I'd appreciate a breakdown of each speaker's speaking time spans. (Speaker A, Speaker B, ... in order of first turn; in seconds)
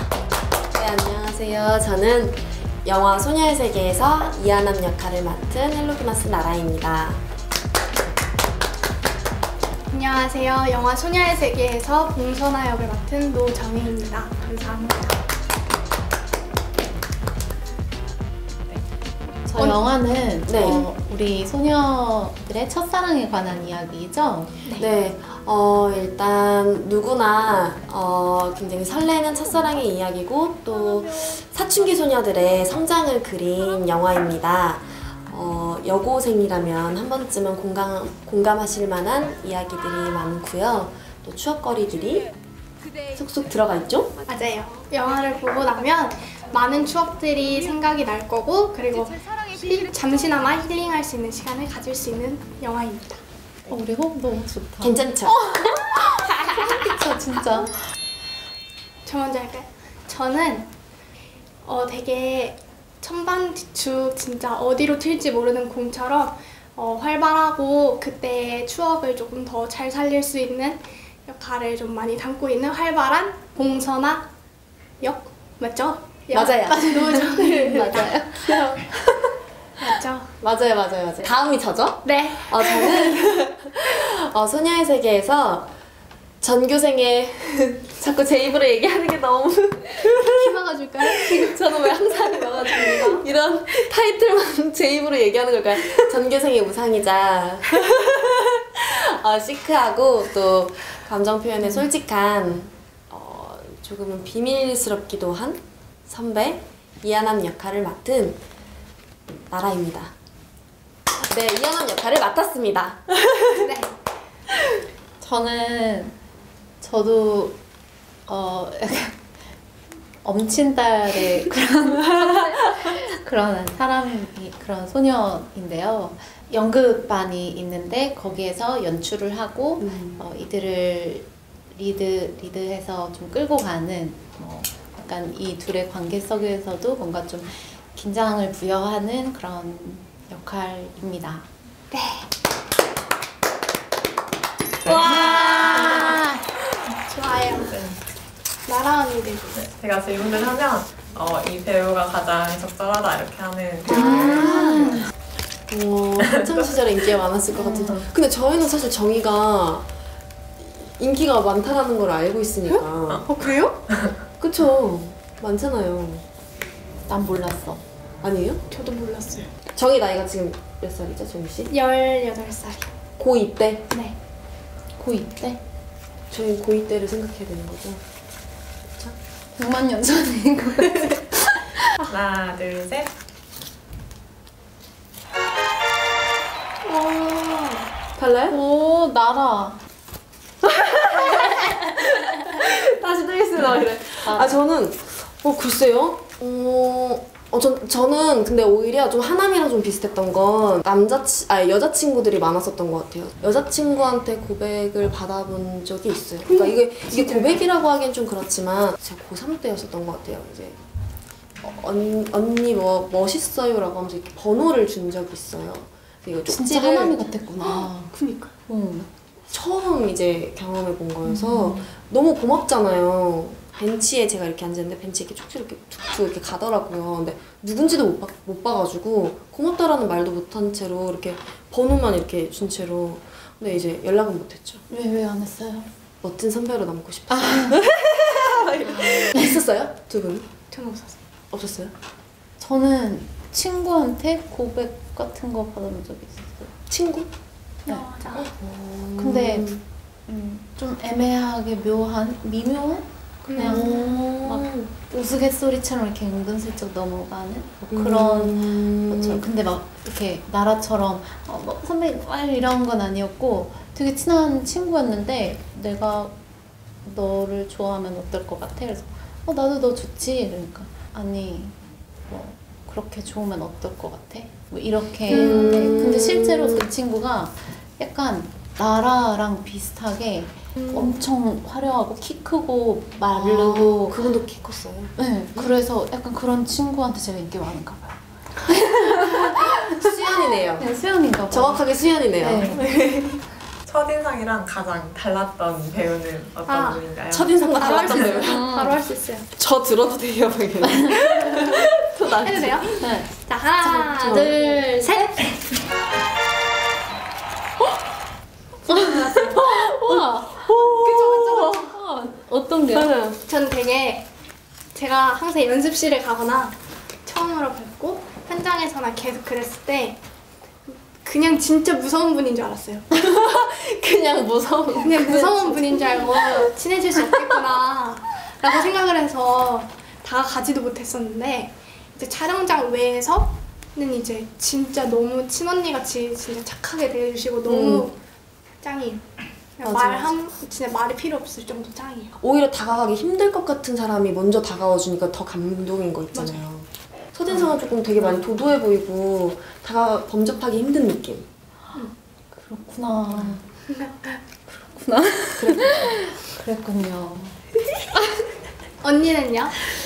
Speaker A: 0.7-7.2, 19.5-19.8, 20.5-20.9, 24.7-42.3, 43.1-44.1, 54.8-55.5, 76.3-79.3, 80.4-85.7, 86.4-108.4, 109.5-110.1, 111.2-113.7, 129.8-130.2, 153.8-155.0, 155.7-159.9, 160.6-163.2, 164.4-166.2, 168.2-168.6, 169.7-171.7, 173.2-173.9, 176.3-178.0, 188.2-188.6, 190.6-210.8, 211.6-217.3, 219.5-234.8, 236.2-240.5, 241.5-241.9, 246.9-247.3, 248.3-249.8, 253.6-254.9, 257.8-259.4, 275.3-276.9, 280.8-281.1, 283.3-285.7, 288.7-290.9, 291.5-293.4, 297.3-298.6, 299.6-303.0, 304.1-304.6, 309.0-311.9, 312.9-313.4, 323.1-327.4, 337.6-338.1, 339.8-340.3, 342.4-351.5, 355.6-356.1
Speaker B: 9.9-15.2, 44.3-53.2, 59.0-60.7, 61.6-74.3, 75.0-78.1, 79.8-80.3, 82.0-83.2, 90.2-91.6, 92.6-93.2, 113.5-113.9, 141.9-142.3, 144.8-146.2, 147.1-147.8, 148.7-149.7, 163.2-163.8, 168.7-169.5, 171.7-172.9, 173.9-174.2, 186.8-187.9, 206.4-207.6, 217.6-218.5, 240.7-241.2, 247.8-248.5, 253.4-253.9, 296.7-297.1, 297.6-299.5, 302.4-305.5, 311.0-311.8, 313.4-314.3, 314.9-320.2, 320.9-323.1, 325.0-338.2, 338.8-339.2, 339.8-342.3, 346.3-346.6, 353.9-354.4, 359.0-359.7
Speaker C: 19.4-24.5, 53.6-57.8, 77.8-78.6, 115.2-116.2, 116.8-117.6, 118.3-119.2, 120.2-141.5, 145.2-146.3, 153.9-155.1, 157.6-158.0, 167.1-167.8, 175.0-175.6, 179.5-181.9, 188.5-189.8, 194.2-194.6, 216.4-218.1, 218.7-219.1, 221.2-221.9, 234.9-235.9, 237.3-237.8, 238.8-239.6, 242.6-246.7, 249.2-249.7, 250.3-266.3, 267.0-271.8, 272.3-284.2, 285.2-292.8, 298.4-299.0, 300.8-301.3, 303.0-303.3, 303.8-305.3, 308.9-313.1, 352.5-353.6, 354.6-357.6
Speaker D: 144.8-146.1, 147.5-148.0, 149.6-154.5, 156.2-156.6, 182.1-183.1, 293.9-298.4